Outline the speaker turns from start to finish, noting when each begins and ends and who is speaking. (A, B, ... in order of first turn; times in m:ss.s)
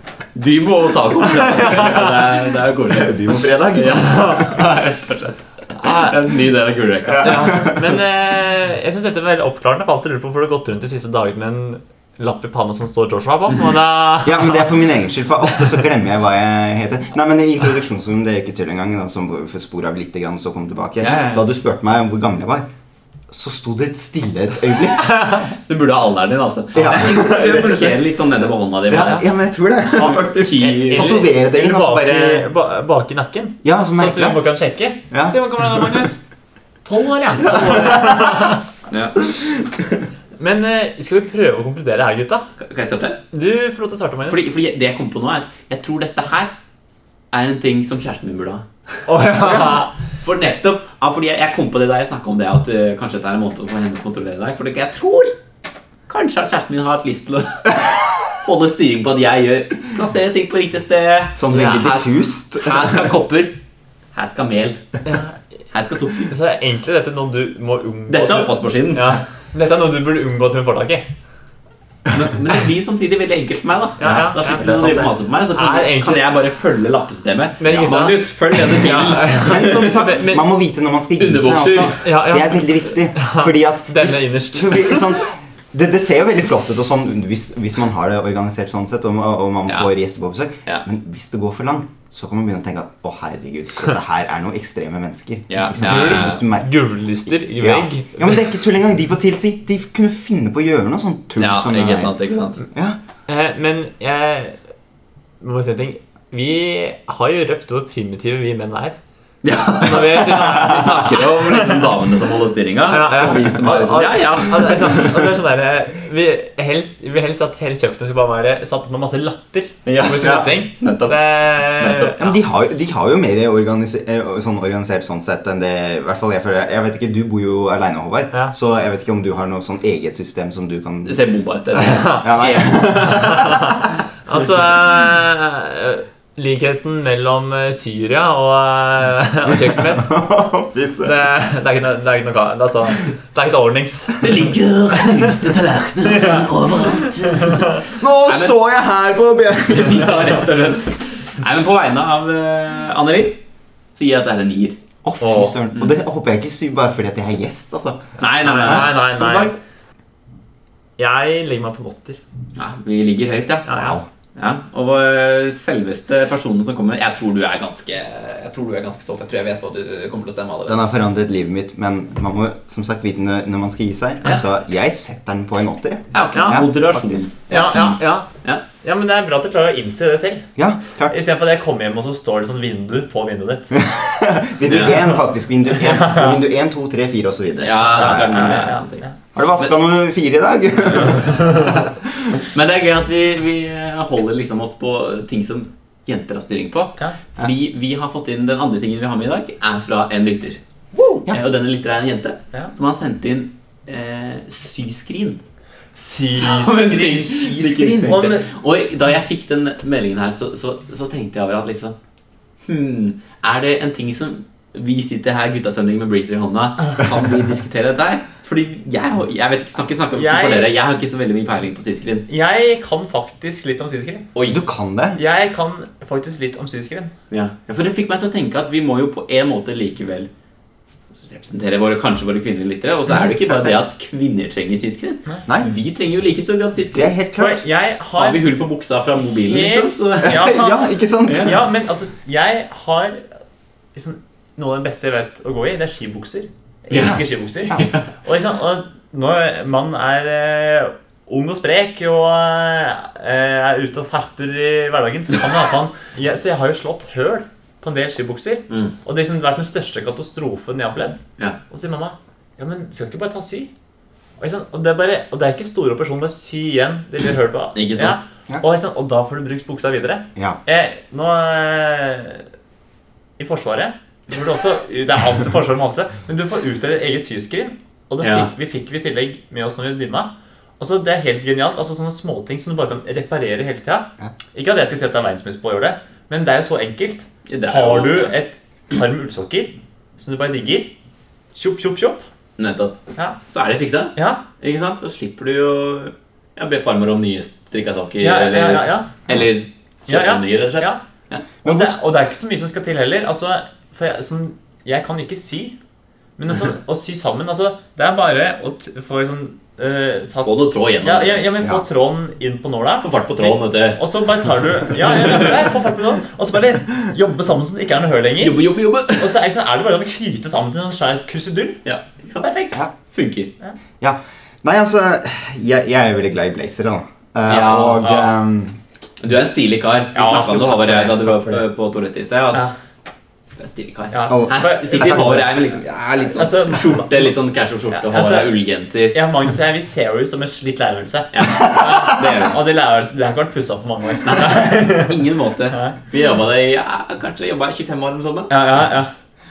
0:00.3-0:03.2 A
0:01.3-0:02.2 B
0:02.9-0:04.4 C
0:03.7-0:07.7 A
0:03.9-0:04.4 B
0:05.8-0:06.3 B
0:07.1-0:08.0 C
0:07.2-0:14.8 B
0:14.2-0:22.6 C
0:21.0-0:21.4 A
0:23.3-0:25.4 C
0:25.0-0:25.5 B
0:25.5-0:29.3 A
0:26.7-0:28.0 C
0:28.9-0:32.5 C
0:29.0-0:29.2 B
0:30.0-0:36.2 B
0:30.0-0:31.2 A
0:33.6-0:34.5 C
0:35.1-0:35.4 C
0:36.8-0:38.6 B
0:37.4-0:38.6 C
0:38.9-0:39.2 A
0:40.4-0:42.5 B
0:42.6-0:43.2 A
0:43.3-0:44.5 B
0:44.3-0:46.5 A
0:47.3-0:55.3 A
0:49.1-0:49.9 B
0:56.1-1:03.6 A
1:01.4-1:03.1 C
1:04.1-1:04.8 A
1:05.0-1:05.4 B
1:05.7-1:06.3 A
1:06.3-1:11.1 B
1:08.1-1:09.2 A
1:12.1-1:20.0 A
1:14.0-1:16.2 B
1:14.0-1:15.1 C
1:17.6-1:20.5 B
1:19.2-1:42.1 C
1:21.2-1:22.0 A
1:21.9-1:25.2 B
1:35.5-1:36.4 A
1:35.8-1:38.3 B
1:41.4-1:42.6 A
1:42.7-1:43.0 C
1:43.3-1:44.6 B
1:45.4-1:49.0 B
1:49.4-1:55.2 A
1:49.7-1:51.8 B
1:52.9-2:02.3 B
1:59.9-2:02.2 A
2:02.2-2:11.2 C
2:11.0-2:13.0 A
2:11.8-2:13.8 C
2:11.8-2:20.1 B
2:19.4-2:21.2 C
2:21.0-2:24.5 B
2:24.2-2:28.6 A
2:26.1-2:27.6 B
2:27.9-2:30.4 C
2:29.7-2:33.4 A
2:34.0-2:34.8 A
2:35.0-2:38.9 C
2:35.2-2:35.6 B
2:38.2-2:39.6 A
2:38.2-2:39.6 B
2:41.0-2:42.2 B
2:42.6-2:43.7 A
2:43.7-2:44.0 B
2:43.7-2:44.0 C
2:44.4-2:50.8 A
2:50.7-2:57.3 C
2:56.1-2:58.6 A
2:56.3-2:56.7 B
2:57.5-2:58.3 B
2:58.8-3:00.5 B
3:00.6-3:01.2 C
3:01.1-3:03.8 B
3:03.7-3:08.6 C
3:04.7-3:05.0 A
3:05.7-3:06.4 B
3:07.6-3:09.1 A
3:07.9-3:09.1 B
3:09.3-3:12.4 C
3:12.4-3:20.6 A
3:21.3-3:25.4 A
3:26.0-3:28.5 B
3:26.1-3:32.0 A
3:27.6-3:28.1 C
3:32.6-3:42.3 A
3:40.1-3:40.7 B
3:42.3-3:44.3 B
3:44.5-3:45.2 C
3:45.2-3:47.1 B
3:47.3-3:50.3 A
3:51.3-3:57.1 A
3:56.9-3:57.6 C
3:57.4-3:58.5 B
3:58.2-4:00.6 A
3:59.2-4:03.3 B
4:00.2-4:01.7 C
4:01.2-4:01.6 A
4:04.0-4:21.2 B
4:06.9-4:08.1 A
4:07.0-4:07.9 C
4:21.7-4:23.7 B
4:24.4-4:32.4 B
4:27.7-4:28.2 A
4:33.4-4:50.9 B
4:38.2-4:38.5 A
4:47.5-4:48.3 A
4:51.6-4:52.2 B
4:52.6-4:53.0 A
4:53.5-5:01.4 A
4:54.2-4:54.4 B
4:58.2-4:59.2 B
5:00.1-5:01.0 B
5:01.6-5:02.0 C
5:01.6-5:05.8 B
5:06.4-5:10.5 B
5:10.4-5:11.5 A
5:11.0-5:18.6 B
5:13.0-5:14.0 A
5:15.2-5:15.5 A
5:18.4-5:19.4 A
5:19.1-5:21.8 B
5:21.8-5:23.5 A
5:24.0-5:28.8 C
5:27.5-5:28.1 A
5:28.0-5:28.3 B
5:29.2-5:32.6 A
5:30.1-5:31.6 B
5:33.6-5:39.2 A
5:34.1-5:35.4 B
5:34.3-5:35.4 C
5:36.2-5:37.3 B
5:37.9-5:38.5 B
5:39.1-5:45.2 B
5:41.3-5:42.6 A
5:44.2-5:48.5 A
5:45.7-5:46.0 B
5:48.5-5:49.1 B